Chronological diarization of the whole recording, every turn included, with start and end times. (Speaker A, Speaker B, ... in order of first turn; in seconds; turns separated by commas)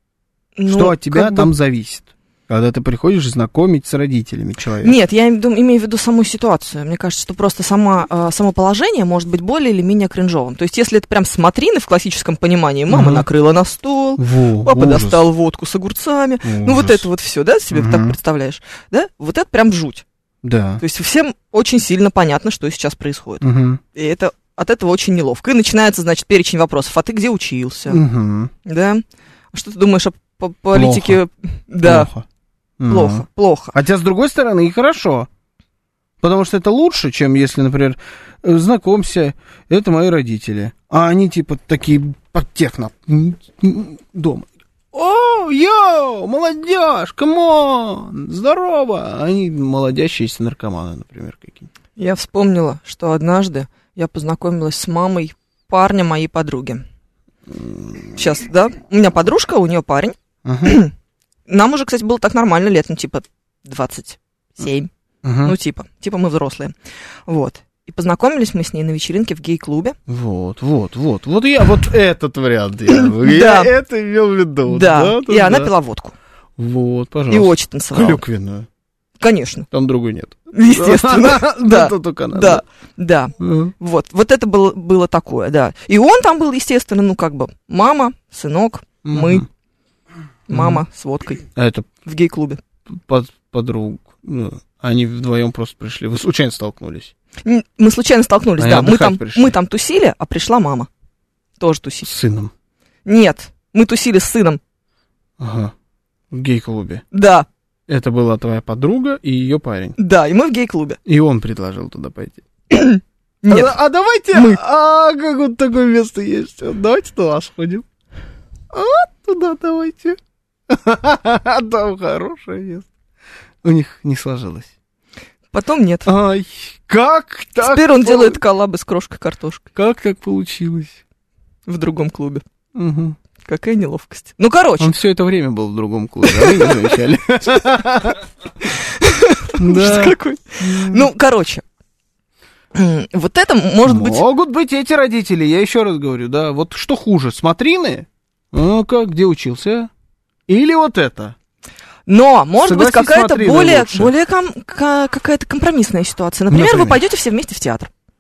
Speaker A: 0.6-1.5, Speaker B: 0.7-5.0, Speaker A: 4.8-20.0, Speaker B: 12.9-13.2, Speaker B: 14.2-15.2, Speaker B: 16.4-17.1, Speaker B: 17.7-18.2, Speaker B: 20.4-20.8, Speaker A: 20.8-23.4, Speaker B: 23.4-23.8, Speaker A: 23.9-28.0, Speaker B: 27.9-28.5, Speaker A: 28.7-32.1, Speaker B: 30.7-31.2, Speaker B: 31.8-32.2, Speaker B: 32.8-35.3, Speaker A: 32.9-33.8, Speaker B: 36.2-51.7, Speaker A: 52.0-56.8, Speaker B: 57.5-58.1, Speaker A: 58.2-60.9, Speaker B: 60.5-60.8, Speaker A: 61.5-64.9, Speaker B: 65.2-65.5, Speaker A: 65.4-66.7, Speaker A: 67.3-70.0, Speaker B: 70.1-75.7, Speaker A: 73.0-73.7, Speaker A: 74.7-76.2, Speaker B: 76.6-78.7, Speaker A: 77.3-78.2, Speaker A: 79.2-79.7, Speaker B: 79.7-82.6, Speaker A: 80.5-89.5, Speaker B: 83.4-83.7, Speaker B: 89.0-89.5, Speaker A: 90.5-91.5, Speaker B: 90.5-90.8, Speaker B: 91.5-91.9, Speaker A: 92.0-92.6, Speaker B: 93.1-97.1, Speaker A: 97.4-100.9, Speaker B: 98.6-99.5, Speaker A: 101.6-102.1, Speaker B: 102.0-102.5, Speaker A: 103.1-104.6, Speaker B: 105.4-105.7, Speaker B: 106.3-107.0, Speaker A: 107.1-107.5, Speaker B: 107.9-110.0, Speaker A: 110.0-111.0, Speaker B: 111.1-112.4, Speaker A: 112.7-113.7, Speaker B: 113.5-117.8, Speaker B: 118.7-120.2, Speaker B: 120.7-122.9, Speaker B: 123.6-124.7, Speaker A: 125.5-126.1, Speaker B: 126.0-128.4, Speaker A: 127.6-129.7, Speaker B: 129.8-131.0, Speaker A: 131.7-132.4, Speaker B: 132.8-133.2, Speaker A: 133.4-134.9, Speaker B: 134.8-138.2, Speaker A: 136.2-136.9, Speaker A: 138.8-141.6, Speaker B: 139.6-141.1, Speaker A: 142.8-144.2, Speaker B: 143.8-149.9, Speaker B: 150.5-151.3, Speaker A: 152.1-157.9, Speaker B: 152.6-154.1, Speaker B: 156.5-157.0